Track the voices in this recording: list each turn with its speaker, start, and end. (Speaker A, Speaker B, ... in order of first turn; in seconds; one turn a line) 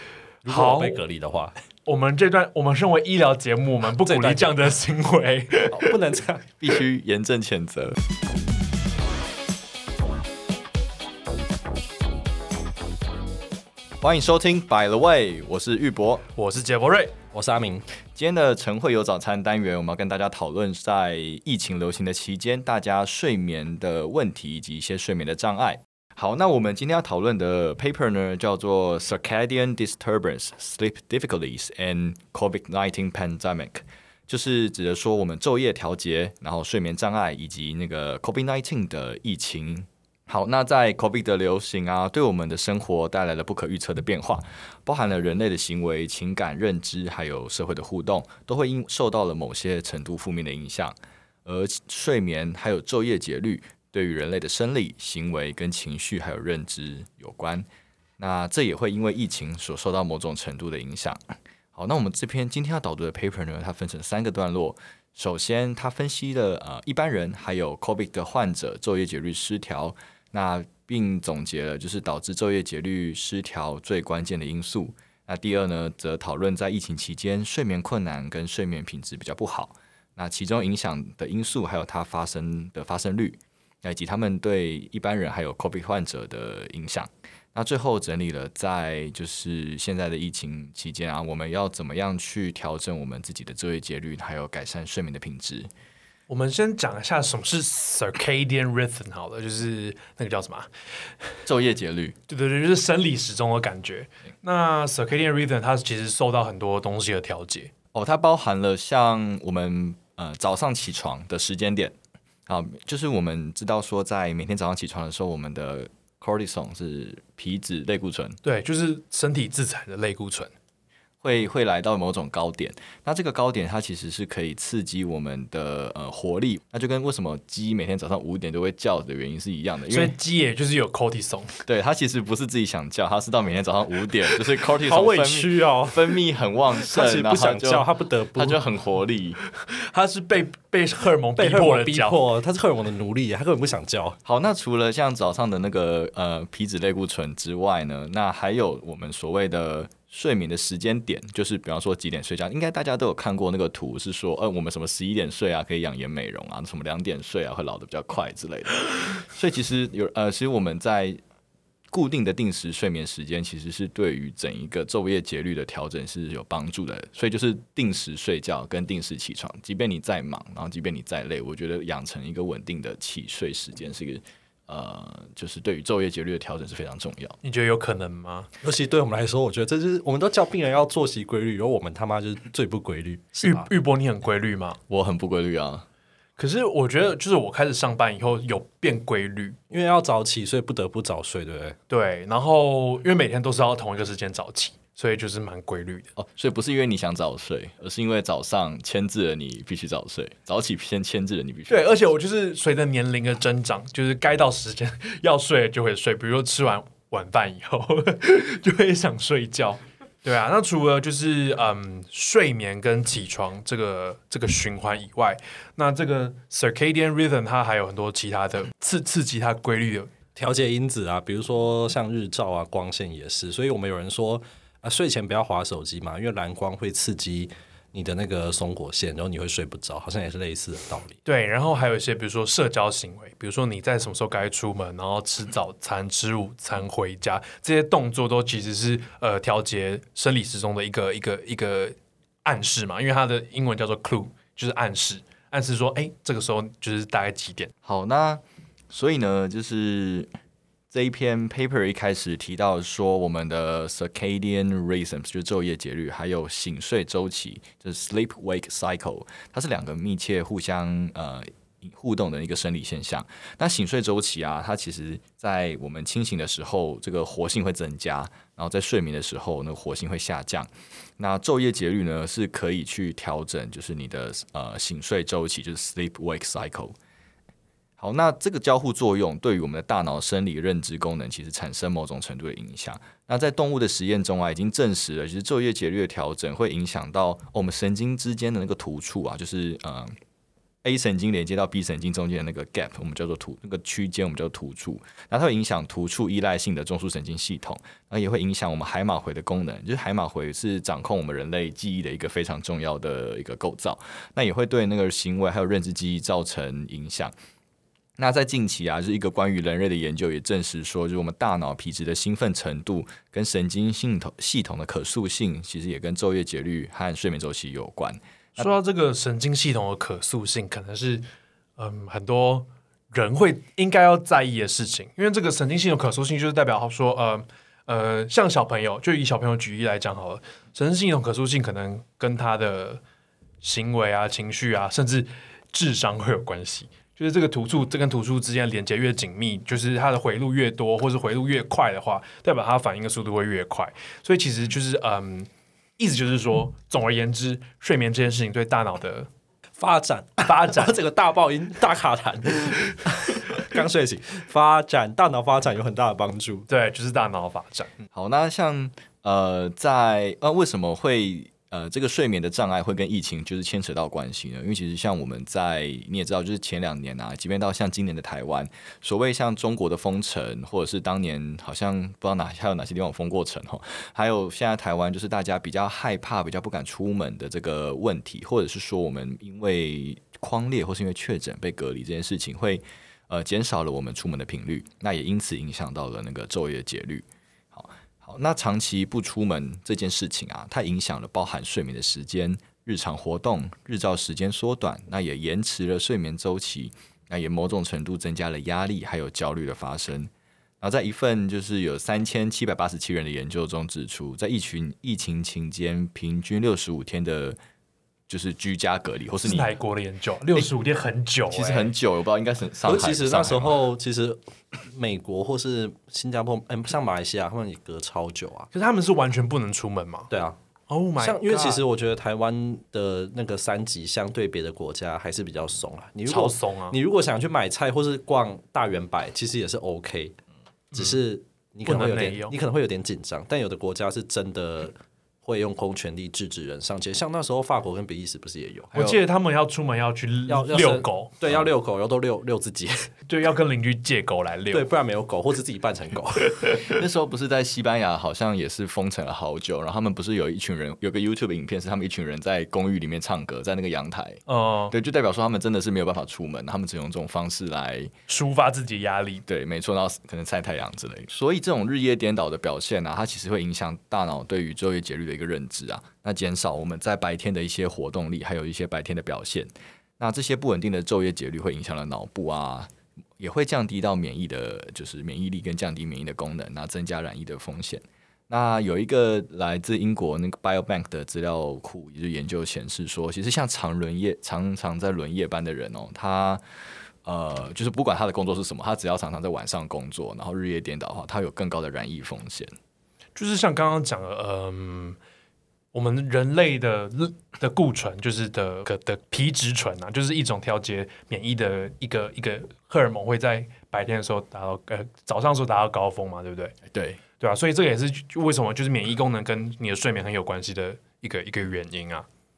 Speaker A: 0.4-1.0
Speaker B: 0.5-1.5
Speaker A: 1.9-5.9
Speaker B: 4.0-4.7
Speaker B: 5.7-6.5
Speaker C: 6.6-8.0
Speaker C: 14.0-16.2
Speaker A: 16.4-17.1
Speaker B: 17.3-17.9
Speaker C: 18.1-57.6
Speaker C: 58.2-95.7
Speaker A: 96.3-100.7
Speaker C: 101.5-102.2
Speaker A: 102.3-107.7
Speaker C: 107.9-112.0
Speaker C: 112.5-118.4
Speaker A: 118.4-120.5
Speaker C: 121.2-130.1
Speaker A: 129.9-131.6
Speaker C: 131.7-139.4
Speaker B: 134.8-136.1
Speaker B: 136.8-138.6
Speaker A: 139.6-142.2
Speaker B: 141.4-144.2
Speaker C: 144.2-161.2
Speaker C: 161.9-177.4
Speaker A: 177.4-178.5
Speaker B: 178.6-183.7
Speaker A: 183.4-184.8
Speaker C: 184.9-185.8
Speaker A: 186.4-189.6
Speaker B: 189.7-191.8
Speaker A: 191.9-196.1
Speaker C: 196.2-202.0
Speaker A: 201.7-220.1
Speaker B: 220.3-231.2
Speaker A: 231.2-247.7
Speaker C: 247.8-250.3
Speaker C: 250.9-276.9
Speaker C: 278.0-290.1
Speaker C: 290.8-307.3
Speaker C: 308.2-318.7
Speaker A: 318.6-321.2
Speaker A: 321.8-333.0
Speaker A: 333.6-349.3
Speaker B: 349.8-356.7
Speaker A: 350.4-350.9
Speaker A: 356.7-357.9
Speaker C: 358.1-407.6
Speaker C: 408.3-409.7
Speaker A: 409.4-411.9
Speaker C: 411.5-413.8
Speaker B: 412.8-418.7
Speaker A: 418.7-420.3
Speaker B: 420.3-420.6
Speaker A: 420.9-421.8
Speaker B: 421.2-430.4
Speaker A: 426.3-426.9
Speaker B: 430.9-438.9
Speaker A: 430.9-431.2
Speaker A: 431.9-432.5
Speaker C: 438.9-439.2
Speaker A: 438.9-441.3
Speaker B: 440.5-443.1
Speaker A: 443.3-444.9
Speaker B: 444.7-446.7
Speaker C: 446.6-458.1
Speaker A: 454.5-454.9
Speaker A: 458.3-459.4
Speaker C: 459.5-486.6
Speaker C: 487.2-492.7
Speaker A: 493.4-495.2
Speaker A: 495.9-506.8
Speaker C: 506.9-507.2
Speaker A: 507.4-512.3